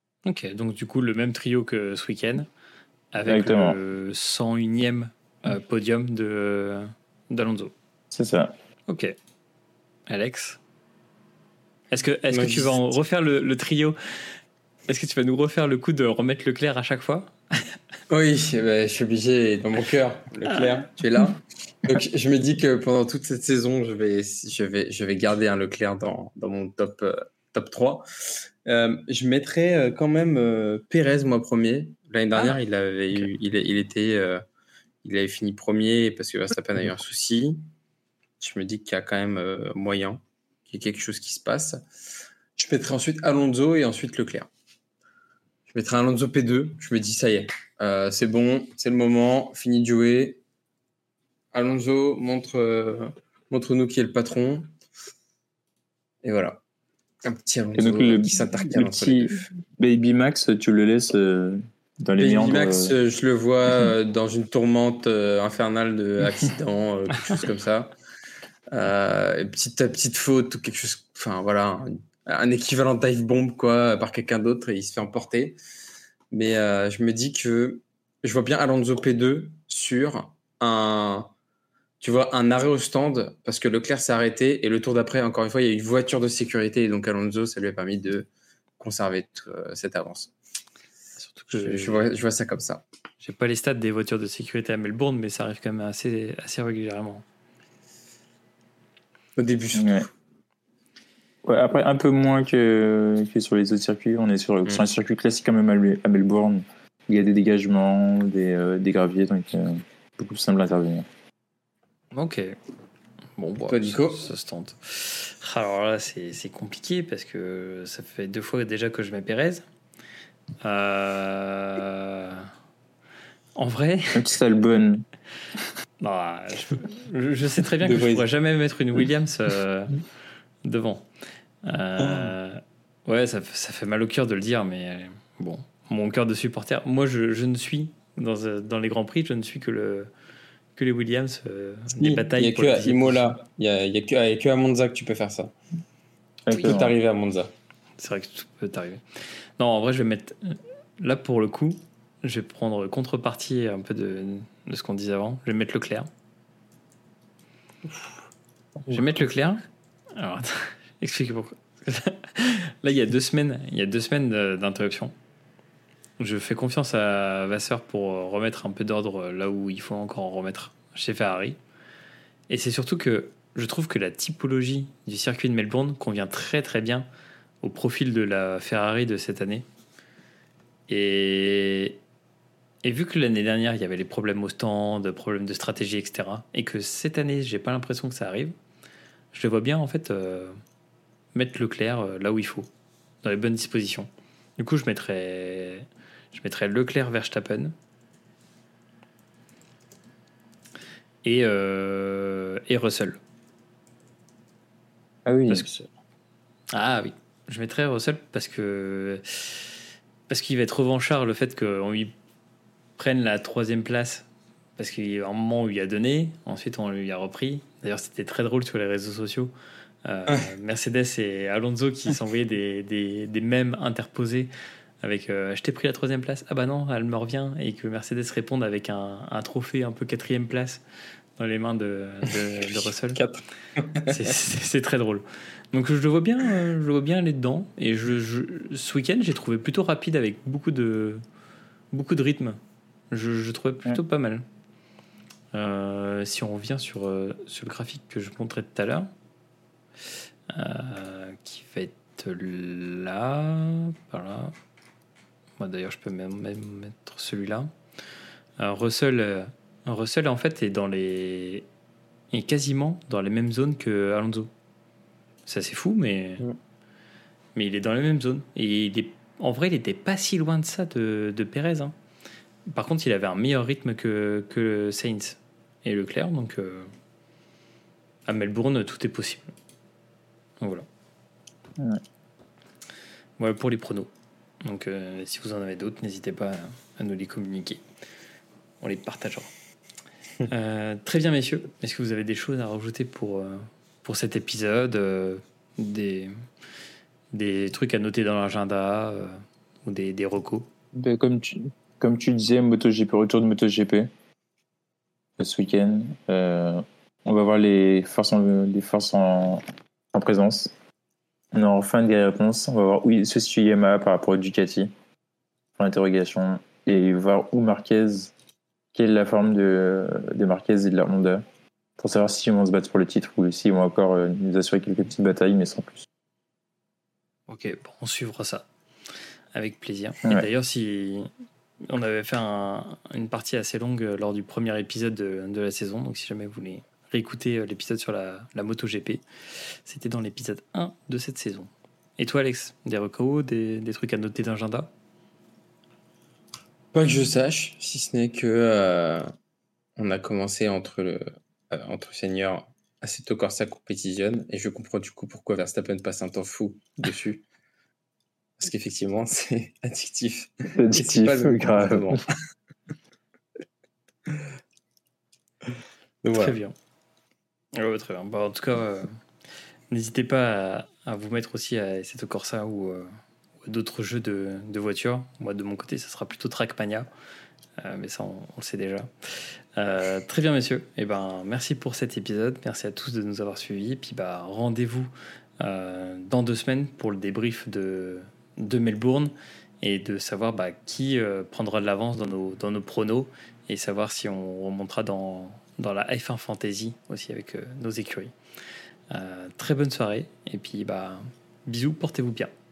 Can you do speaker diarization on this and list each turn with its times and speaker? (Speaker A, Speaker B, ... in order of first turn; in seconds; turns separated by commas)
Speaker A: 0.2-2.5, Speaker A: 3.1-7.7, Speaker B: 3.3-3.8, Speaker B: 8.1-8.5, Speaker A: 8.9-9.2, Speaker A: 10.1-10.6, Speaker A: 11.9-14.0, Speaker C: 12.3-12.9, Speaker A: 14.9-17.8, Speaker C: 18.1-34.4, Speaker C: 35.0-37.6, Speaker C: 38.4-41.8, Speaker C: 42.6-44.5, Speaker C: 45.7-50.4, Speaker C: 51.5-54.7, Speaker C: 56.2-56.6, Speaker C: 57.2-59.5, Speaker B: 57.8-63.0, Speaker C: 62.2-67.9, Speaker C: 68.7-75.6, Speaker C: 76.3-81.3, Speaker C: 82.0-88.3, Speaker C: 88.8-90.3, Speaker A: 91.2-92.0, Speaker C: 91.5-92.8, Speaker A: 93.2-97.2, Speaker C: 99.4-100.1, Speaker B: 99.7-100.1, Speaker B: 101.5-111.1, Speaker A: 112.1-112.6, Speaker A: 113.4-119.6, Speaker C: 113.7-114.2, Speaker A: 120.6-122.5, Speaker A: 123.6-124.3, Speaker B: 124.1-125.0, Speaker A: 126.0-130.0, Speaker C: 127.8-128.3, Speaker A: 130.6-131.1, Speaker A: 131.6-140.1, Speaker A: 140.8-143.4, Speaker C: 142.0-145.5, Speaker B: 146.5-146.9, Speaker C: 146.5-147.5, Speaker A: 148.0-149.0, Speaker A: 149.6-156.1, Speaker A: 158.9-159.6, Speaker A: 160.1-165.1, Speaker A: 166.2-171.6, Speaker A: 172.5-177.1, Speaker A: 177.6-179.6, Speaker A: 180.9-182.0, Speaker A: 182.8-188.6, Speaker A: 189.3-190.6, Speaker A: 191.3-192.7, Speaker A: 193.2-197.8, Speaker A: 201.2-203.2, Speaker B: 205.3-205.7, Speaker A: 205.5-205.8, Speaker A: 206.7-209.7, Speaker A: 210.3-212.1, Speaker A: 213.0-219.5, Speaker A: 220.1-224.5, Speaker A: 225.0-230.8, Speaker A: 231.4-233.2, Speaker C: 233.1-234.3, Speaker A: 234.1-241.2, Speaker A: 241.9-242.6, Speaker A: 243.1-244.4, Speaker A: 245.5-249.1, Speaker A: 250.5-254.6, Speaker A: 255.6-257.7, Speaker A: 258.6-261.6, Speaker A: 262.3-264.5, Speaker A: 265.5-266.4, Speaker A: 267.6-271.9, Speaker A: 272.7-276.9, Speaker A: 278.3-279.5, Speaker A: 280.6-280.9, Speaker A: 283.4-284.1, Speaker A: 284.6-287.8, Speaker A: 288.8-289.5, Speaker A: 290.5-296.3, Speaker A: 297.3-300.7, Speaker B: 300.9-304.1, Speaker B: 305.4-309.6, Speaker B: 310.1-310.7, Speaker B: 311.5-314.9, Speaker B: 315.8-318.3, Speaker B: 318.9-321.4, Speaker B: 322.0-326.1, Speaker A: 327.5-328.7, Speaker A: 329.5-331.3, Speaker A: 331.8-339.2, Speaker A: 339.8-344.9, Speaker C: 346.9-349.3, Speaker C: 350.0-357.4, Speaker C: 358.6-362.2, Speaker B: 360.7-362.2, Speaker C: 366.2-366.6, Speaker A: 366.3-366.7, Speaker A: 367.7-369.1, Speaker A: 369.9-377.1, Speaker A: 377.8-398.3, Speaker A: 399.1-402.5